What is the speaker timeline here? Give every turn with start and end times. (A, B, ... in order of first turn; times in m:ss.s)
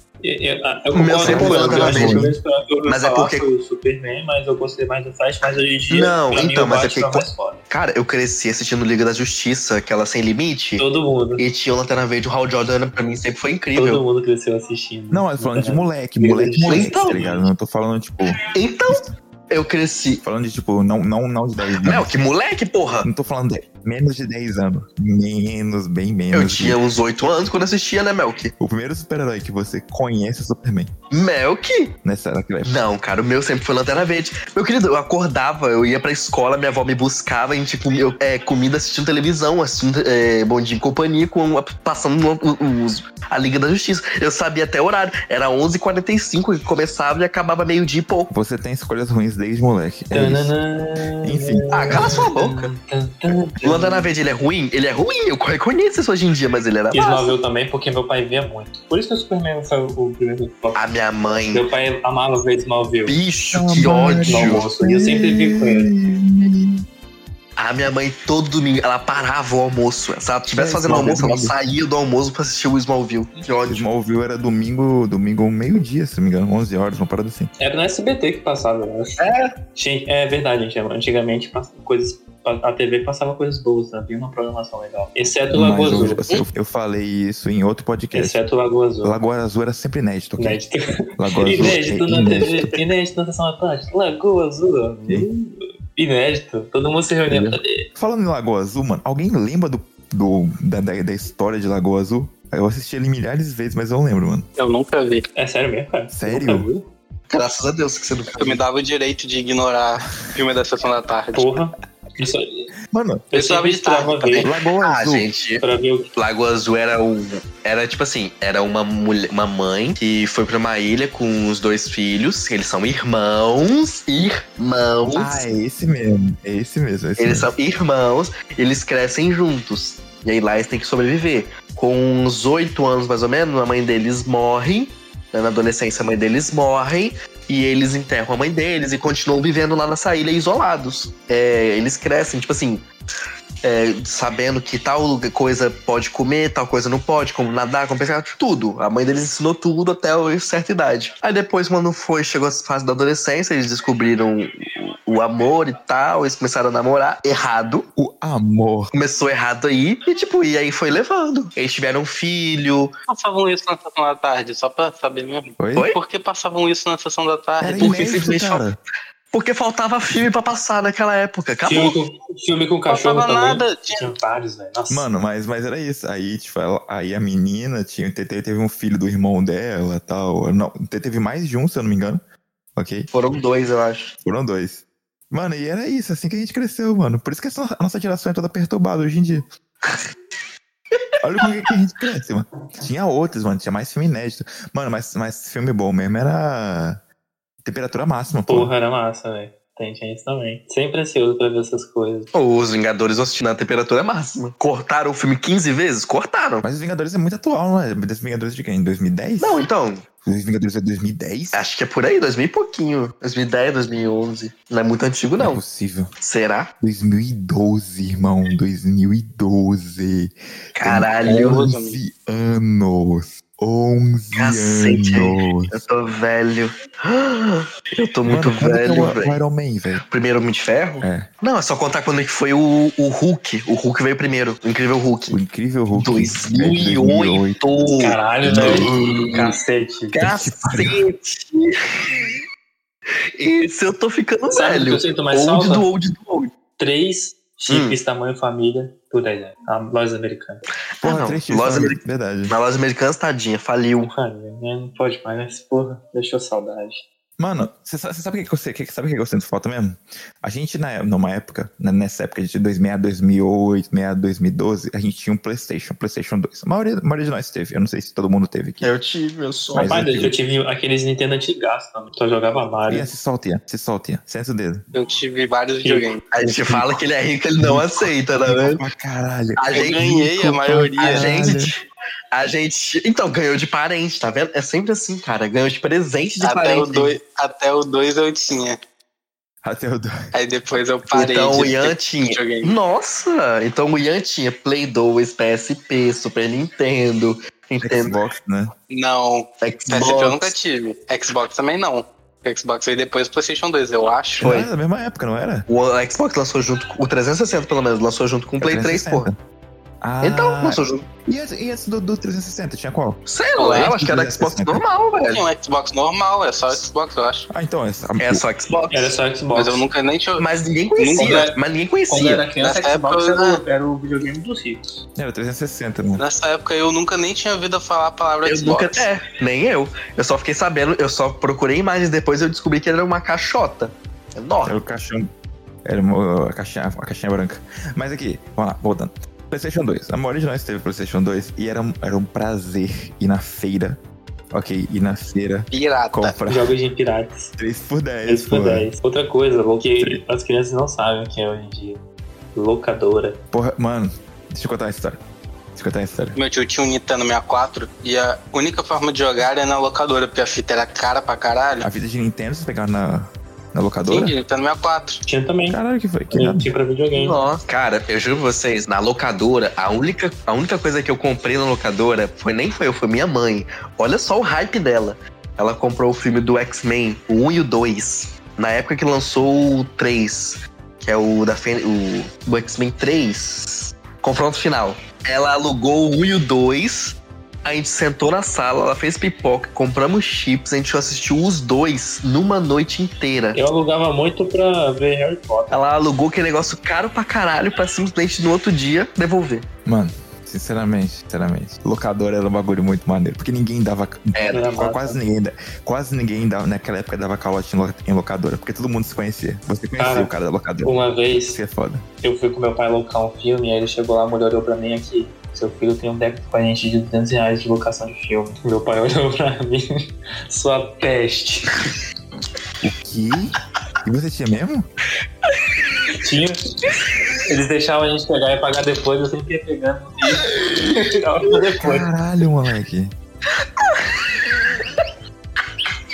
0:00.2-0:07.6 A
0:00.9-0:02.3 B
0:01.2-0:02.4 C
0:02.9-0:03.5 B
0:05.9-0:10.9 B
0:10.8-0:11.4 A
0:11.4-0:14.0 B
0:13.8-0:17.4 A
0:15.1-0:18.4 C
0:16.7-0:17.3 B
0:18.5-0:20.2 B
0:20.2-0:22.2 C
0:21.8-0:23.1 B
0:23.0-0:26.8 C
0:26.3-0:28.5 B
0:28.6-0:30.9 C
0:31.1-0:31.9 B
0:32.0-0:32.8 C
0:32.6-0:48.3 B
0:48.3-0:50.6 C
0:50.1-0:54.1 A
0:51.2-0:52.2 C
0:51.7-0:52.7 B
0:53.6-0:57.3 B
0:56.9-1:00.8 A
1:00.8-1:01.6 B
1:01.5-1:03.2 A
1:03.1-1:04.6 B
1:03.5-1:06.8 C
1:04.2-1:05.9 A
1:07.6-1:13.8 B
1:10.5-1:11.6 C
1:13.6-1:17.5 C
1:17.6-1:19.2 A
1:19.2-1:19.5 B
1:19.8-1:26.2 A
1:25.5-1:28.4 C
1:28.1-1:29.2 A
1:29.0-1:32.7 C
1:30.4-1:30.8 A
1:31.4-1:37.8 A
1:37.3-1:44.5 C
1:44.6-1:45.3 D
1:45.4-1:46.9 A
1:46.1-1:46.7 C
1:47.3-1:48.6 B
1:48.4-1:51.5 D
1:51.3-1:52.7 A
1:52.9-1:53.3 C
1:53.3-1:54.5 A
1:53.3-1:54.5 D
1:54.4-1:55.3 C
1:54.8-1:55.6 B
1:55.6-1:56.1 A
1:56.2-2:05.4 B
2:05.1-2:07.5 C
2:07.2-2:22.9 B
2:23.6-2:37.9 B
2:38.0-2:38.9 C
2:38.9-2:42.9 B
2:43.1-2:47.9 D
2:45.6-2:45.9 C
2:47.6-2:48.8 C
2:47.8-2:48.6 B
2:49.3-2:51.9 B
2:51.6-2:55.1 A
2:52.9-2:54.1 D
2:54.9-3:02.2 C
3:02.8-3:03.1 C
3:03.1-3:04.1 B
3:04.2-3:09.4 C
3:11.2-3:17.0 C
3:17.6-3:18.7 C
3:18.5-3:22.3 A
3:22.3-3:26.6 B
3:26.6-3:29.6 C
3:29.4-3:30.1 B
3:30.2-3:31.6 C
3:31.5-3:35.6 B
3:35.4-3:36.1 C
3:36.2-3:36.7 B
3:36.8-3:45.8 C
3:40.8-3:41.6 B
3:41.2-3:42.0 D
3:44.4-3:49.4 B
3:48.2-3:50.0 C
3:50.0-3:55.4 B
3:51.0-3:51.3 C
3:55.3-3:57.6 C
3:55.9-3:59.6 B
3:58.0-4:00.2 A
3:58.4-3:59.0 C
4:00.1-4:02.4 B
4:00.2-4:01.0 C
4:03.4-4:06.5 B
4:04.5-4:05.9 A
4:06.8-4:10.6 A
4:07.7-4:08.0 B
4:11.0-4:14.1 B
4:11.0-4:12.6 C
4:14.1-4:17.0 A
4:17.4-4:28.9 C
4:28.8-4:30.0 B
4:29.7-4:30.4 C
4:29.8-4:33.1 A
4:32.9-4:34.8 C
4:34.9-4:36.2 D
4:35.8-4:36.1 A
4:36.3-4:38.8 B
4:36.4-4:37.0 C
4:37.6-4:41.7 C
4:39.6-4:40.1 B
4:39.7-4:41.5 D
4:41.0-4:47.1 B
4:46.4-4:48.8 D
4:49.6-4:50.1 C
4:50.3-4:52.8 D
4:51.1-4:58.1 B
4:57.8-4:58.7 C
4:58.9-5:04.5 D
4:59.6-5:00.5 B
5:04.4-5:05.7 C
5:04.4-5:04.7 B
5:05.7-5:09.3 B
5:08.6-5:09.4 C
5:10.0-5:14.8 C
5:10.2-5:11.1 B
5:13.3-5:15.4 B
5:13.6-5:13.9 D
5:15.3-5:17.5 D
5:17.5-5:18.4 C
5:18.2-5:19.2 B
5:18.9-5:19.8 A
5:19.6-5:21.4 D
5:20.4-5:22.4 B
5:21.2-5:24.8 A
5:22.6-5:23.6 D
5:25.2-5:26.2 C
5:26.2-5:29.1 D
5:28.4-5:34.8 B
5:34.6-5:35.3 C
5:35.8-5:44.0 C
5:44.5-5:46.8 C
5:45.7-5:46.4 D
5:46.5-5:47.5 A
5:47.6-5:48.9 C
5:48.3-5:52.0 A
5:52.6-5:53.4 A
5:53.5-5:55.2 C
5:55.8-5:56.4 C
5:56.4-6:01.9 D
6:01.8-6:04.4 C
6:04.1-6:05.2 D
6:05.3-6:05.8 A
6:05.7-6:06.7 C
6:06.3-6:07.4 A
6:07.1-6:33.6 B
6:33.5-6:35.8 A
6:35.7-6:39.7 B
6:39.9-6:52.0 C
6:44.3-6:44.6 B
6:44.5-6:45.2 A
6:50.0-6:50.3 A
6:50.8-6:51.6 A
6:52.2-6:59.9 A
7:00.5-7:01.8 A
7:02.8-7:04.9 C
7:06.2-7:06.6 A
7:07.4-7:12.1 A
7:11.8-7:13.1 C
7:13.8-7:14.9 B